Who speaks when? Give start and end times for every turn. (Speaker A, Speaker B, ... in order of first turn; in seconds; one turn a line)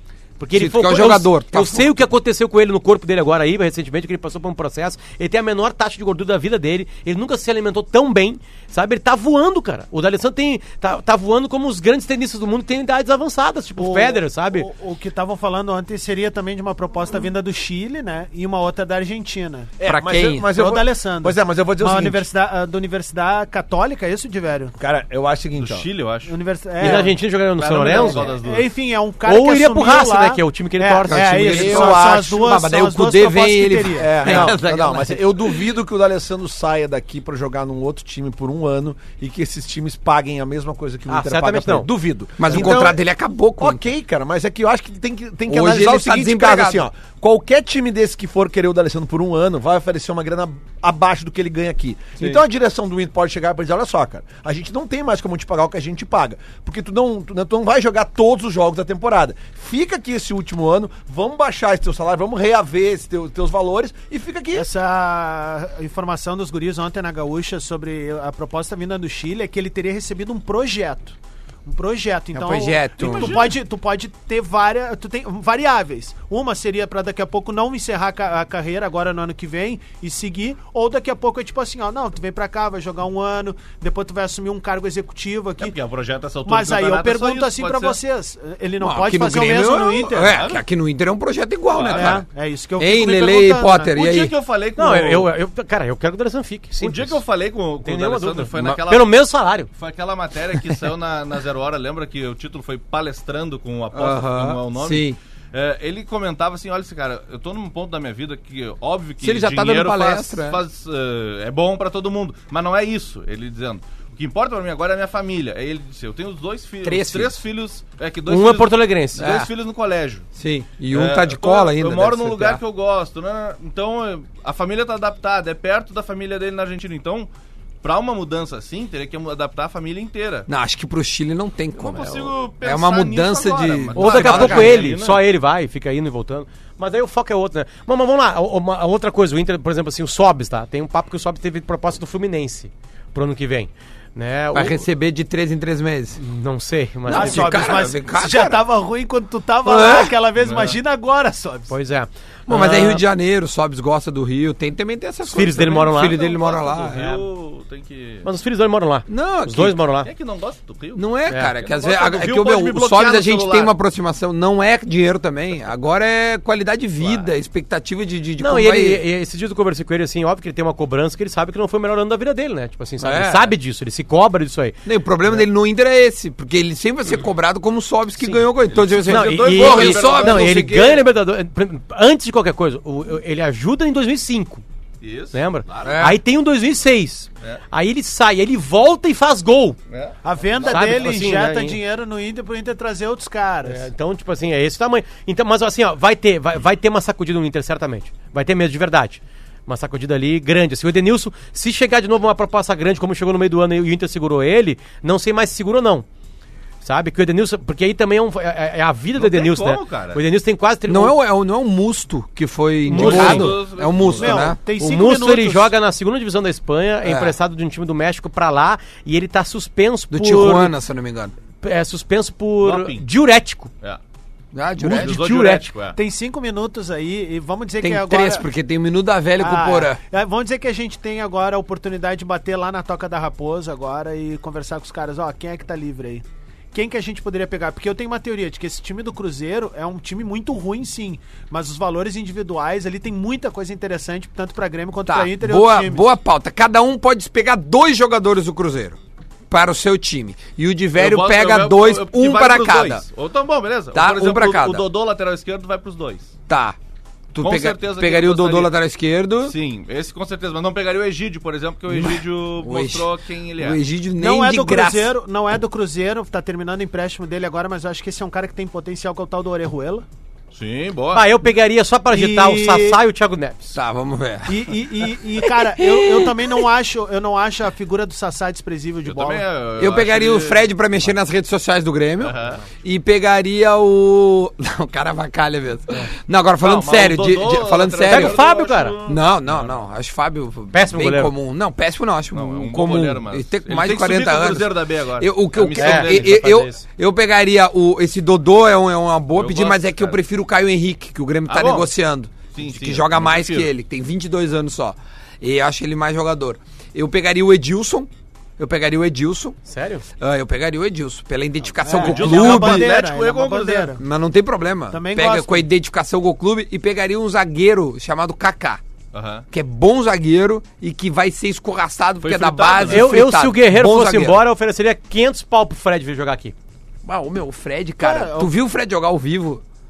Speaker A: 0.4-14.7
Speaker B: 0.5-2.0
Speaker C: 13.8-19.7
Speaker D: 19.8-22.3
Speaker B: 19.8-20.5
Speaker C: 20.5-24.7
Speaker D: 24.8-25.9
Speaker E: 25.6-28.7
Speaker C: 26.3-27.1
Speaker A: 26.8-28.3
Speaker C: 27.9-34.5
Speaker A: 29.2-31.6
Speaker B: 31.1-35.6
Speaker D: 31.5-32.4
Speaker D: 33.9-43.0
Speaker A: 41.1-41.9
Speaker B: 42.4-43.9
Speaker D: 43.6-64.7
Speaker B: 45.5-46.8
Speaker C: 64.5-85.8
Speaker B: 72.3-73.5
Speaker E: 85.6-88.0
Speaker C: 86.5-90.5
Speaker B: 88.8-92.2
Speaker E: 90.1-90.6
Speaker E: 91.7-92.2
Speaker C: 91.9-93.9
Speaker B: 92.8-94.3
Speaker E: 93.9-95.3
Speaker A: 94.8-97.2
Speaker E: 96.8-99.1
Speaker A: 97.8-99.7
Speaker E: 99.7-120.3
Speaker B: 103.9-105.2
Speaker B: 109.2-110.6
Speaker B: 116.8-117.4
Speaker A: 118.3-119.3
Speaker B: 119.2-119.5
Speaker B: 120.4-122.6
Speaker E: 120.9-127.3
Speaker E: 127.8-130.5
Speaker B: 130.5-135.0
Speaker E: 131.8-135.2
Speaker A: 133.9-144.8
Speaker B: 144.5-146.2
Speaker A: 146.2-147.6
Speaker B: 147.1-148.7
Speaker C: 147.1-151.7
Speaker B: 149.6-150.2
Speaker E: 150.4-150.8
Speaker A: 151.7-153.0
Speaker B: 152.5-157.1
Speaker A: 155.2-156.2
Speaker E: 155.8-158.3
Speaker A: 156.9-157.2
Speaker A: 158.2-160.1
Speaker B: 159.1-159.8
Speaker E: 160.0-163.7
Speaker B: 160.9-169.0
Speaker A: 168.4-175.4
Speaker B: 173.0-173.5
Speaker B: 174.8-181.0
Speaker A: 178.2-178.5
Speaker E: 178.7-181.0
Speaker A: 179.0-184.6
Speaker E: 185.0-185.9
Speaker A: 185.3-189.8
Speaker B: 185.8-186.2
Speaker E: 189.9-191.1
Speaker C: 190.2-193.9
Speaker A: 190.7-191.8
Speaker A: 193.6-206.1
Speaker A: 206.8-211.2
Speaker E: 209.2-210.2
Speaker B: 210.9-214.6
Speaker A: 212.8-213.6
Speaker E: 212.9-214.5
Speaker C: 214.1-215.7
Speaker A: 214.7-220.8
Speaker B: 217.0-217.3
Speaker B: 220.1-221.3
Speaker A: 221.6-223.7
Speaker E: 222.6-223.1
Speaker B: 224.5-225.4
Speaker E: 224.8-226.0
Speaker A: 225.0-225.7
Speaker C: 225.9-228.5
Speaker B: 227.8-230.0
Speaker C: 229.4-246.1
Speaker B: 245.1-249.0
Speaker B: 249.5-253.0
Speaker E: 251.0-256.3
Speaker B: 253.9-254.8
Speaker B: 256.5-256.8
Speaker B: 257.3-259.5
Speaker E: 257.4-258.7
Speaker E: 259.4-263.8
Speaker B: 261.9-265.1
Speaker C: 264.2-270.1
Speaker E: 270.5-271.2
Speaker A: 271.1-273.8
Speaker C: 272.1-273.0
Speaker B: 273.7-276.6
Speaker C: 274.5-279.5
Speaker E: 279.0-281.1
Speaker B: 279.8-288.4
Speaker E: 282.2-282.6
Speaker E: 286.6-289.8
Speaker A: 288.1-288.9
Speaker B: 289.1-309.6
Speaker A: 290.7-291.3
Speaker E: 292.3-296.6
Speaker A: 295.8-296.8
Speaker E: 299.3-300.2
Speaker E: 301.5-301.9
Speaker E: 302.5-303.7
Speaker A: 309.7-310.1
Speaker B: 310.2-312.9
Speaker C: 311.6-314.0
Speaker E: 312.0-313.9
Speaker B: 314.0-318.8
Speaker C: 314.9-315.7
Speaker E: 319.1-319.5
Speaker B: 319.5-324.4
Speaker E: 322.2-323.1
Speaker A: 322.8-326.5
Speaker B: 327.0-329.6
Speaker C: 328.0-328.5